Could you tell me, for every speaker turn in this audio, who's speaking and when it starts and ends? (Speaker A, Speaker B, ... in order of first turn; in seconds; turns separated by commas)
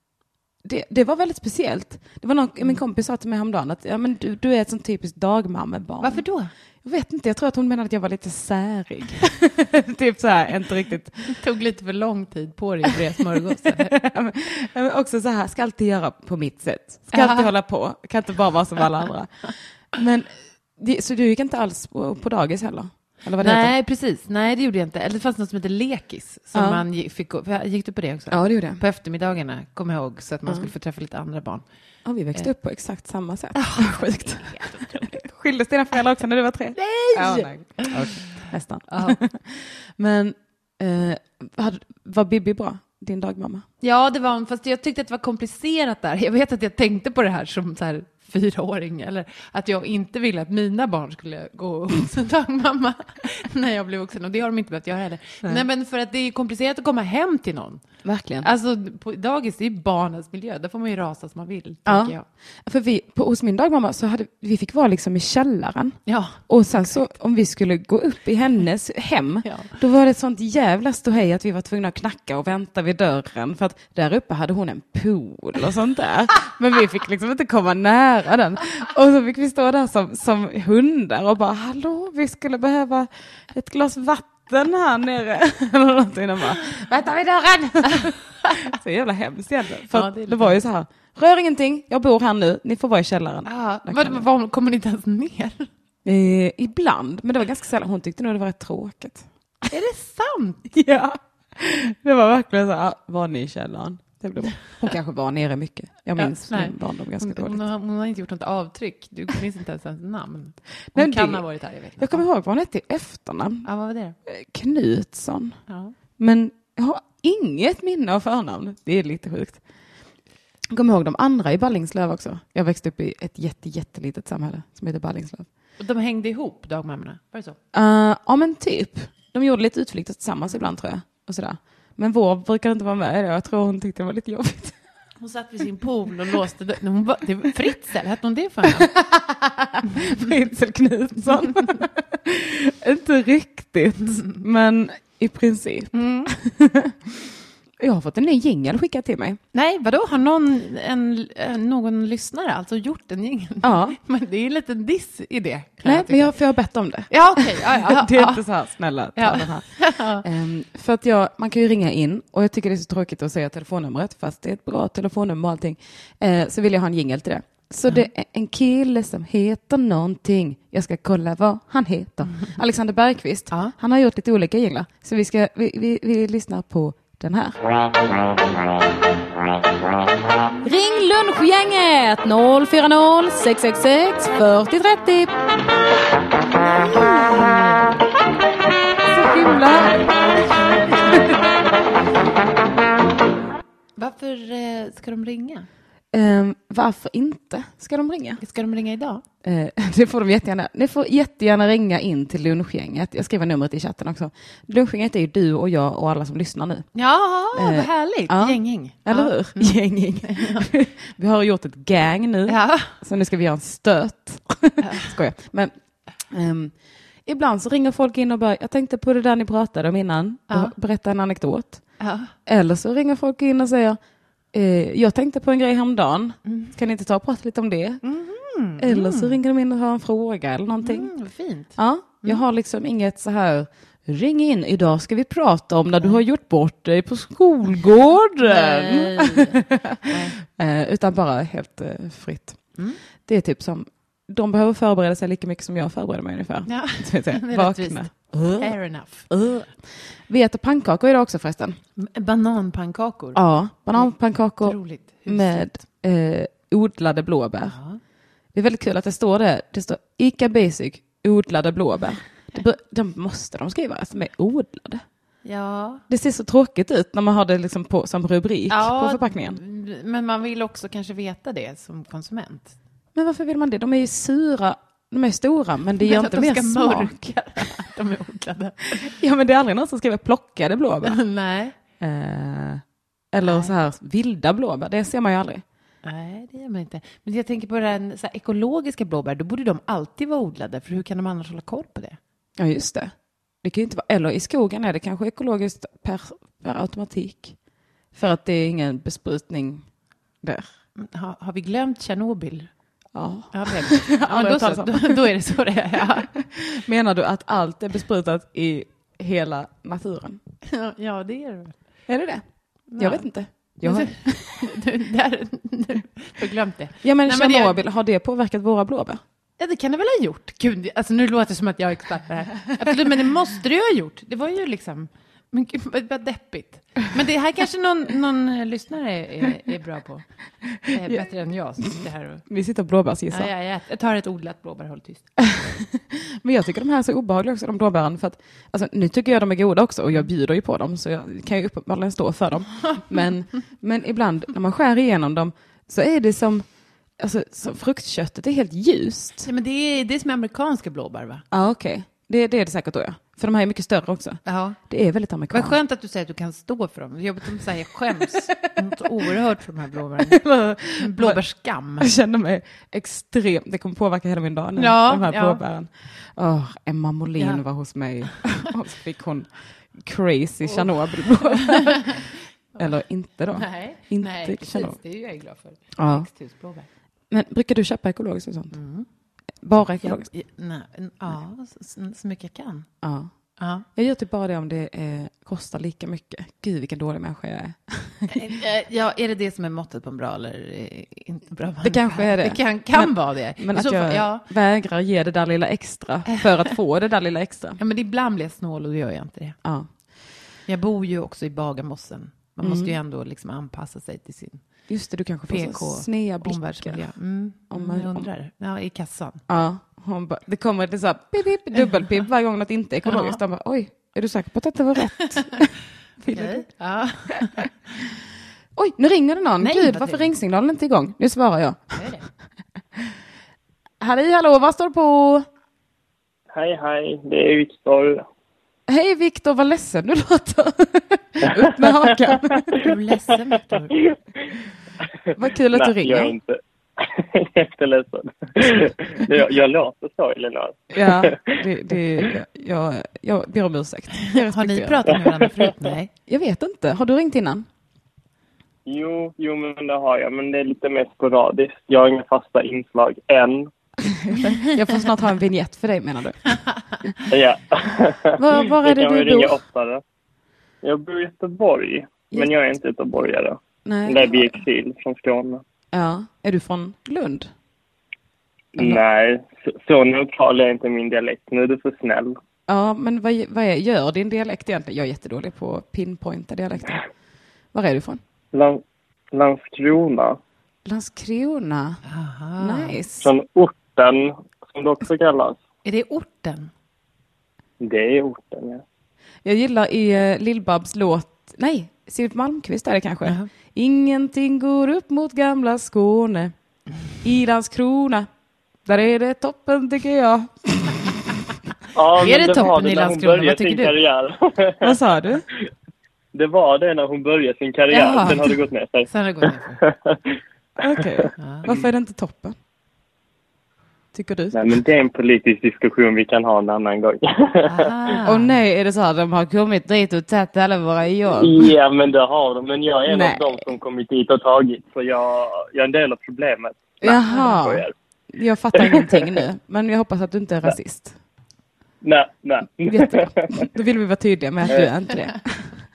Speaker A: 0.6-6.2, Speaker B: 6.0-6.5, Speaker A: 6.8-11.4, Speaker B: 11.3-13.9, Speaker A: 13.6-23.7, Speaker B: 17.1-17.5, Speaker B: 23.4-31.6, Speaker A: 26.5-26.8, Speaker A: 28.3-28.8, Speaker A: 32.0-43.6, Speaker B: 33.5-35.3, Speaker B: 36.8-39.2, Speaker B: 43.8-57.8, Speaker A: 58.0-58.5, Speaker B: 58.4-62.2, Speaker A: 61.9-62.1, Speaker A: 62.6-94.2, Speaker B: 66.1-67.0, Speaker B: 69.5-69.7, Speaker B: 87.9-88.7, Speaker B: 89.9-90.6, Speaker B: 93.5-95.7, Speaker A: 96.0-99.3, Speaker B: 99.7-100.7, Speaker A: 100.7-107.6, Speaker B: 106.2-112.2, Speaker A: 110.9-111.4, Speaker A: 112.0-113.7, Speaker B: 113.6-114.2, Speaker A: 114.3-115.6, Speaker B: 115.7-115.9, Speaker A: 116.2-119.6, Speaker A: 120.7-125.5, Speaker B: 125.8-127.6, Speaker A: 127.7-134.8, Speaker B: 135.2-138.9, Speaker A: 138.8-149.4, Speaker B: 139.9-140.3, Speaker B: 145.9-146.3, Speaker B: 149.5-156.4, Speaker A: 153.6-154.0, Speaker A: 155.8-177.6, Speaker B: 157.1-158.5, Speaker B: 159.2-160.2, Speaker A: 180.6-185.3, Speaker B: 186.6-188.2, Speaker A: 186.9-187.3, Speaker A: 189.0-191.4, Speaker B: 190.3-191.3, Speaker B: 194.0-195.7, Speaker A: 196.1-198.4, Speaker B: 198.4-199.2, Speaker A: 199.4-206.9, Speaker B: 206.9-210.7, Speaker A: 207.5-215.7, Speaker B: 212.5-212.9, Speaker B: 214.8-215.2, Speaker A: 216.3-216.7, Speaker A: 217.3-221.8, Speaker B: 222.0-222.3, Speaker A: 222.5-224.0, Speaker A: 224.5-228.0, Speaker B: 226.5-226.7, Speaker B: 228.0-229.4, Speaker A: 228.8-231.1, Speaker B: 230.8-232.4, Speaker A: 231.8-242.6, Speaker B: 238.4-240.4, Speaker A: 243.3-248.8, Speaker B: 246.7-249.3, Speaker A: 249.3-249.7, Speaker A: 250.3-251.8, Speaker B: 252.0-253.4, Speaker A: 253.3-257.8, Speaker B: 253.9-255.8, Speaker B: 257.6-258.0, Speaker A: 258.5-265.0, Speaker B: 265.4-266.0, Speaker A: 266.1-269.6, Speaker B: 268.7-272.8, Speaker A: 273.1-277.3, Speaker B: 276.0-279.1, Speaker A: 278.9-281.2, Speaker B: 281.0-281.8, Speaker A: 282.0-285.6, Speaker B: 283.4-283.8, Speaker B: 286.0-292.2, Speaker A: 292.6-297.6, Speaker A: 298.1-299.8, Speaker A: 300.4-300.7, Speaker B: 301.0-302.7, Speaker A: 303.1-305.4, Speaker B: 303.5-306.3, Speaker A: 306.3-310.4, Speaker B: 310.6-311.8, Speaker A: 312.1-312.4, Speaker B: 312.9-313.3, Speaker A: 313.0-314.7, Speaker B: 313.8-317.8, Speaker A: 317.0-319.2, Speaker B: 319.6-330.2, Speaker B: 330.8-332.5, Speaker A: 330.8-331.3, Speaker A: 332.5-333.5, Speaker B: 333.3-335.8, Speaker A: 335.5-346.6, Speaker A: 347.2-349.5, Speaker B: 349.4-351.4, Speaker A: 351.5-355.8, Speaker B: 354.5-354.8, Speaker B: 355.5-360.4, Speaker A: 358.1-358.6, Speaker A: 360.2-361.4, Speaker B: 360.9-362.1, Speaker A: 362.0-375.0, Speaker B: 364.8-365.6, Speaker B: 370.6-372.9, Speaker B: 373.5-376.9, Speaker A: 376.0-376.3, Speaker A: 377.3-378.8, Speaker B: 378.7-379.1, Speaker A: 379.6-380.3, Speaker B: 380.0-382.9, Speaker A: 383.0-383.3, Speaker B: 383.6-383.9, Speaker A: 383.9-388.4, Speaker B: 388.3-394.5, Speaker A: 391.8-397.8, Speaker B: 397.8-399.6, Speaker A: 399.6-399.9, Speaker B: 400.7-404.6, Speaker A: 402.6-403.0, Speaker A: 404.9-407.1, Speaker B: 405.5-409.4, Speaker A: 407.7-408.3, Speaker A: 409.5-416.6, Speaker B: 413.1-413.4, Speaker B: 416.3-417.7, Speaker A: 418.8-422.1, Speaker B: 419.6-420.3, Speaker B: 421.9-422.2, Speaker A: 424.0-425.5, Speaker C: 426.5-428.3, Speaker A: 428.9-432.7, Speaker C: 431.8-432.9, Speaker B: 432.8-433.9, Speaker C: 433.9-434.5, Speaker A: 435.4-436.3, Speaker C: 435.7-441.6, Speaker A: 440.9-445.3, Speaker B: 444.2-446.1, Speaker A: 446.3-447.7, Speaker C: 448.9-453.7, Speaker A: 454.0-456.6, Speaker C: 457.3-460.0, Speaker A: 458.4-459.6, Speaker C: 460.8-465.6, Speaker A: 463.9-464.6, Speaker A: 465.9-467.5, Speaker C: 468.8-472.4, Speaker A: 472.7-477.0, Speaker A: 477.7-478.2, Speaker C: 478.5-478.8, Speaker C: 479.3-480.4, Speaker A: 480.9-482.0, Speaker B: 482.0-483.0, Speaker A: 482.6-483.3, Speaker C: 483.2-485.6, Speaker B: 485.8-486.7, Speaker C: 487.8-488.8, Speaker A: 489.4-496.5, Speaker A: 497.2-498.3, Speaker A: 498.9-501.1, Speaker C: 501.9-505.0, Speaker B: 502.2-503.9, Speaker A: 504.8-505.4, Speaker C: 506.3-510.2, Speaker B: 507.9-508.6, Speaker B: 509.1-509.8, Speaker A: 510.8-512.5, Speaker C: 510.8-511.3, Speaker B: 511.4-511.7, Speaker A: 514.1-514.8, Speaker C: 514.5-518.1, Speaker B: 517.6-518.6, Speaker A: 518.2-521.7, Speaker C: 521.4-527.9, Speaker A: 523.1-523.6, Speaker A: 527.0-531.2, Speaker C: 528.8-529.4, Speaker C: 532.0-533.7, Speaker A: 532.8-535.7